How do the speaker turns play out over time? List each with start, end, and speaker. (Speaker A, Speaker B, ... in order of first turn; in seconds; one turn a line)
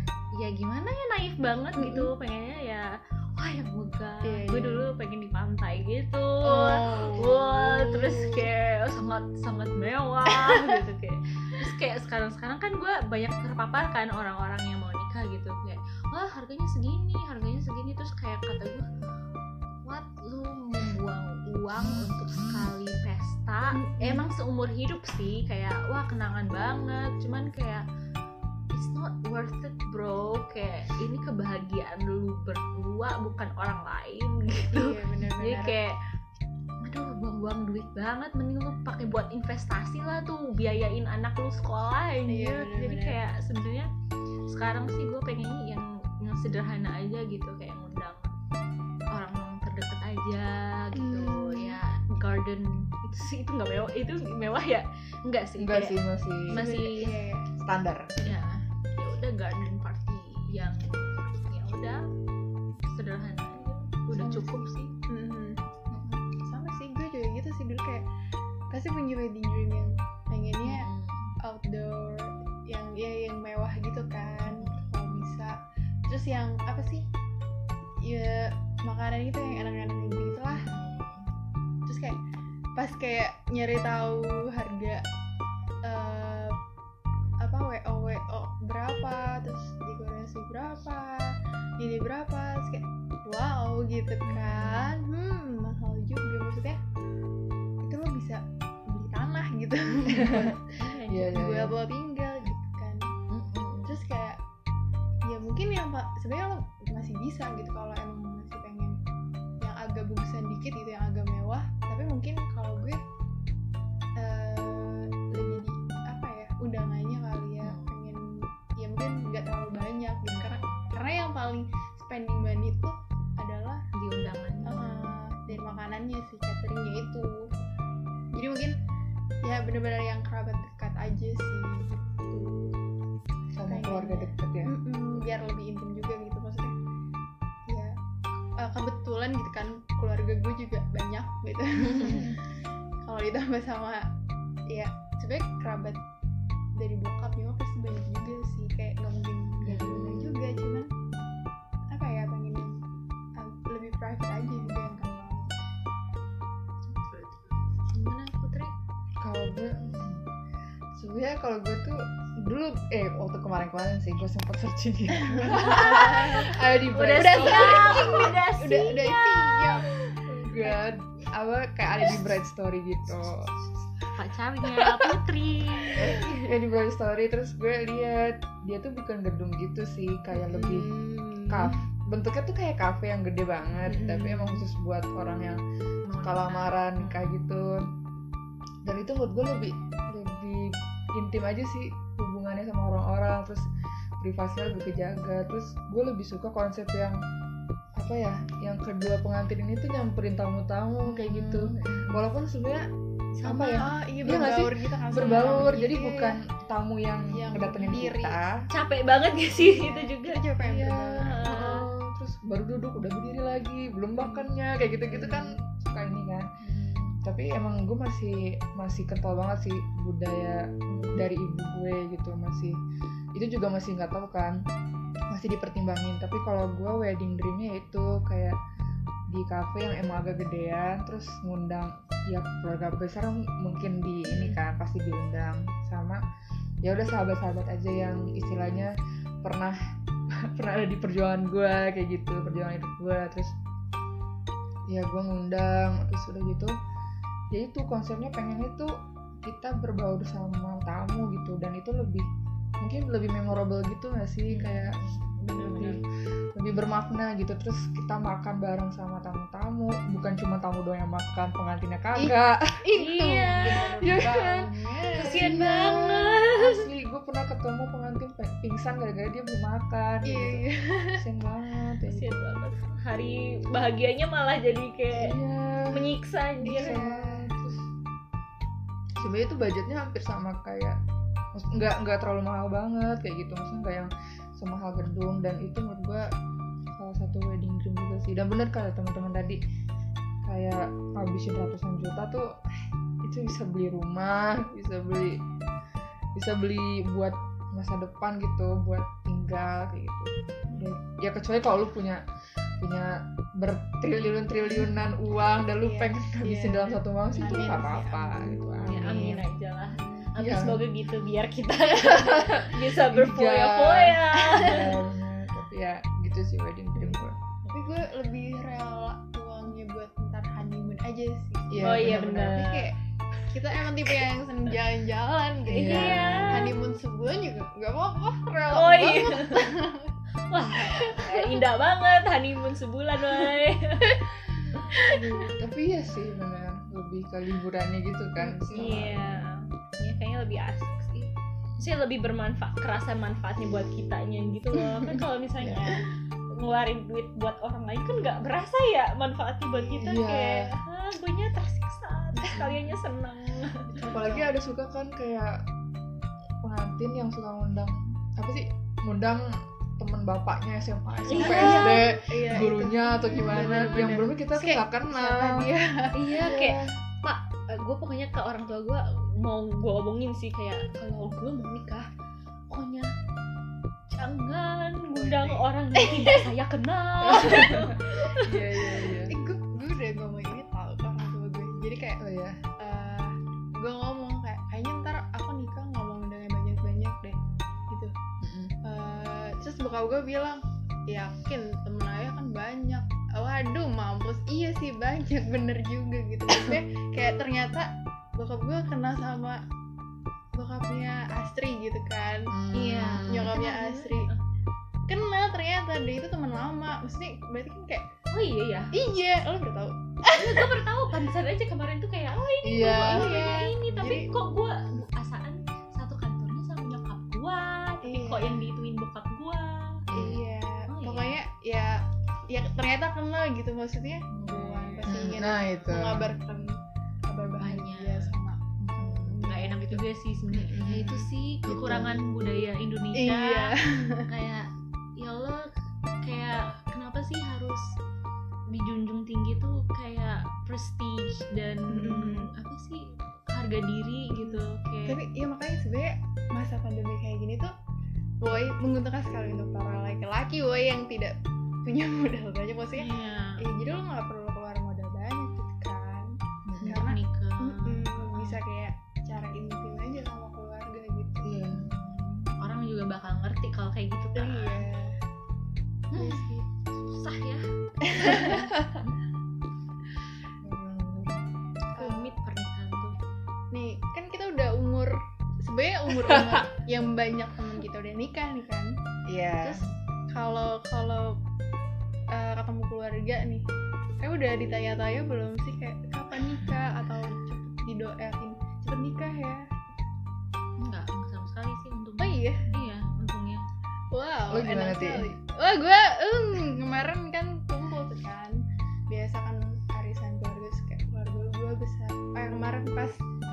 Speaker A: 0.3-18.9
Speaker B: 1.8-2.1
Speaker B: 4.2-4.9
Speaker B: 6.4-8.4
Speaker B: 10.4-10.8
Speaker A: 19.8-27.9
Speaker B: 23.8-24.2
Speaker A: 28.7-36.0
Speaker B: 34.7-35.8
Speaker A: 36.8-43.9
Speaker B: 42.3-43.2
Speaker A: 44.5-48.3
Speaker A: 49.1-56.0
Speaker B: 51.0-51.8
Speaker C: 55.6-56.6
Speaker A: 56.5-57.1
Speaker B: 56.5-57.5
Speaker C: 57.6-58.3
Speaker A: 58.2-62.0
Speaker A: 62.8-65.0
Speaker B: 64.1-65.6
Speaker A: 65.9-66.2
Speaker B: 66.3-68.1
Speaker B: 68.7-70.9
Speaker A: 70.6-71.3
Speaker B: 71.4-75.6
Speaker A: 74.5-74.8
Speaker B: 76.1-77.1
Speaker B: 78.0-80.7
Speaker A: 80.5-81.3
Speaker B: 81.9-82.2
Speaker B: 82.8-85.0
Speaker B: 85.8-86.6
Speaker B: 87.4-96.8
Speaker A: 94.2-95.0
Speaker B: 97.8-103.1
Speaker C: 100.1-100.5
Speaker A: 100.8-101.3
Speaker C: 101.1-101.8
Speaker A: 103.3-104.0
Speaker B: 103.9-104.4
Speaker B: 105.2-109.0
Speaker B: 109.6-113.0
Speaker B: 114.2-118.2
Speaker A: 117.6-118.0
Speaker B: 118.8-123.8
Speaker A: 120.3-120.9
Speaker A: 123.9-125.8
Speaker B: 124.7-127.5
Speaker B: 128.3-128.8
Speaker B: 129.4-132.7
Speaker C: 133.5-134.7
Speaker B: 133.7-136.8
Speaker B: 137.7-138.0
Speaker B: 138.6-142.4
Speaker A: 142.0-142.3
Speaker C: 142.0-142.3
Speaker B: 143.0-144.1
Speaker B: 144.7-146.0
Speaker B: 146.8-150.9
Speaker C: 149.7-150.3
Speaker B: 151.9-152.8
Speaker B: 153.4-155.7
Speaker A: 156.9-158.7
Speaker C: 159.2-160.3
Speaker C: 160.9-168.3
Speaker B: 165.2-166.3
Speaker A: 165.4-170.7
Speaker B: 167.2-169.9
Speaker C: 170.3-173.5
Speaker A: 173.1-176.4
Speaker C: 174.8-175.1
Speaker C: 176.0-180.9
Speaker B: 180.3-181.8
Speaker C: 181.5-185.6
Speaker B: 183.9-184.6
Speaker A: 186.1-187.3
Speaker C: 186.2-187.8
Speaker C: 188.8-193.7
Speaker C: 194.2-197.2
Speaker C: 197.9-202.9
Speaker A: 201.0-202.2
Speaker A: 203.4-203.9
Speaker C: 203.4-208.6
Speaker B: 203.8-206.4
Speaker A: 205.2-205.7
Speaker B: 207.3-208.4
Speaker A: 208.7-210.4
Speaker B: 209.5-211.8
Speaker C: 210.6-216.5
Speaker A: 211.2-211.9
Speaker A: 215.1-215.4
Speaker A: 216.6-217.2
Speaker C: 217.2-222.8
Speaker A: 220.9-221.2
Speaker C: 223.3-224.6
Speaker C: 225.3-228.6
Speaker C: 229.3-236.2
Speaker B: 234.3-234.6
Speaker C: 236.8-239.8
Speaker C: 240.3-243.6
Speaker C: 244.9-246.7
Speaker C: 247.5-252.3
Speaker C: 252.8-256.0
Speaker A: 254.5-256.0
Speaker C: 256.6-262.9
Speaker B: 262.2-266.1
Speaker A: 263.0-264.2
Speaker C: 264.0-264.7
Speaker A: 265.2-266.8
Speaker C: 265.3-270.6
Speaker B: 270.3-271.2
Speaker C: 271.2-272.6
Speaker A: 272.1-275.4
Speaker C: 275.1-276.2
Speaker A: 275.9-277.1
Speaker B: 276.6-277.5
Speaker C: 276.7-277.9
Speaker C: 279.2-281.0
Speaker C: 281.5-286.3
Speaker C: 287.0-289.6
Speaker C: 290.4-295.4
Speaker C: 296.4-302.2
Speaker C: 302.8-309.4
Speaker B: 305.8-308.7
Speaker A: 307.4-307.8
Speaker A: 308.8-314.9
Speaker C: 310.4-310.8
Speaker C: 312.1-317.4
Speaker A: 317.6-317.9
Speaker B: 317.7-323.0
Speaker C: 321.7-322.5
Speaker A: 321.8-322.9
Speaker B: 323.5-330.1
Speaker C: 325.7-326.6
Speaker A: 325.7-326.8
Speaker A: 328.7-329.7
Speaker A: 330.5-335.4
Speaker B: 330.8-331.6
Speaker B: 334.9-335.6
Speaker C: 335.4-339.4
Speaker B: 338.4-339.2
Speaker A: 338.7-354.1
Speaker C: 345.6-345.9
Speaker B: 349.7-350.2
Speaker C: 350.0-350.7
Speaker B: 352.5-352.8
Speaker B: 353.9-354.5
Speaker C: 354.1-355.7
Speaker C: 356.6-365.7
Speaker A: 361.3-362.0
Speaker B: 361.4-366.1
Speaker A: 363.6-363.9
Speaker A: 366.1-372.1
Speaker C: 366.4-367.0
Speaker A: 372.7-373.1
Speaker A: 374.1-378.5
Speaker B: 375.1-376.5
Speaker C: 377.3-379.3
Speaker B: 377.3-377.7
Speaker B: 379.3-382.2
Speaker C: 382.2-382.6
Speaker B: 382.8-387.4
Speaker C: 388.4-388.8
Speaker B: 388.8-399.6
Speaker B: 400.5-402.6
Speaker C: 402.5-403.6
Speaker A: 402.7-404.4
Speaker B: 403.3-404.3
Speaker B: 405.1-408.1
Speaker A: 408.3-408.9
Speaker B: 408.9-410.9
Speaker A: 410.3-421.4
Speaker C: 412.6-413.4
Speaker B: 412.8-414.3
Speaker B: 418.0-418.7
Speaker C: 420.1-420.4
Speaker B: 420.1-430.0
Speaker A: 424.3-425.4
Speaker C: 425.1-426.4
Speaker A: 427.6-428.3
Speaker C: 428.8-429.4
Speaker A: 429.4-433.8
Speaker C: 430.6-432.2
Speaker B: 433.1-434.2
Speaker A: 434.3-435.7
Speaker A: 436.2-437.9
Speaker A: 438.7-445.2
Speaker B: 441.9-442.5
Speaker B: 444.3-447.7
Speaker B: 448.4-453.1
Speaker A: 452.9-453.6
Speaker B: 453.6-461.6
Speaker C: 456.7-457.0
Speaker A: 456.8-458.6
Speaker C: 461.4-461.9
Speaker A: 461.7-464.9
Speaker B: 464.4-465.2
Speaker A: 466.1-469.1
Speaker B: 466.1-466.7
Speaker B: 468.0-468.6
Speaker C: 468.4-469.0
Speaker C: 470.6-471.4
Speaker A: 472.0-473.2
Speaker B: 472.0-472.4
Speaker B: 473.7-478.9
Speaker C: 476.2-476.6
Speaker C: 479.3-479.9
Speaker B: 480.3-481.4
Speaker B: 482.3-483.7
Speaker B: 484.2-489.8
Speaker A: 490.8-493.7
Speaker B: 492.2-492.7
Speaker B: 494.1-503.2
Speaker C: 494.5-495.3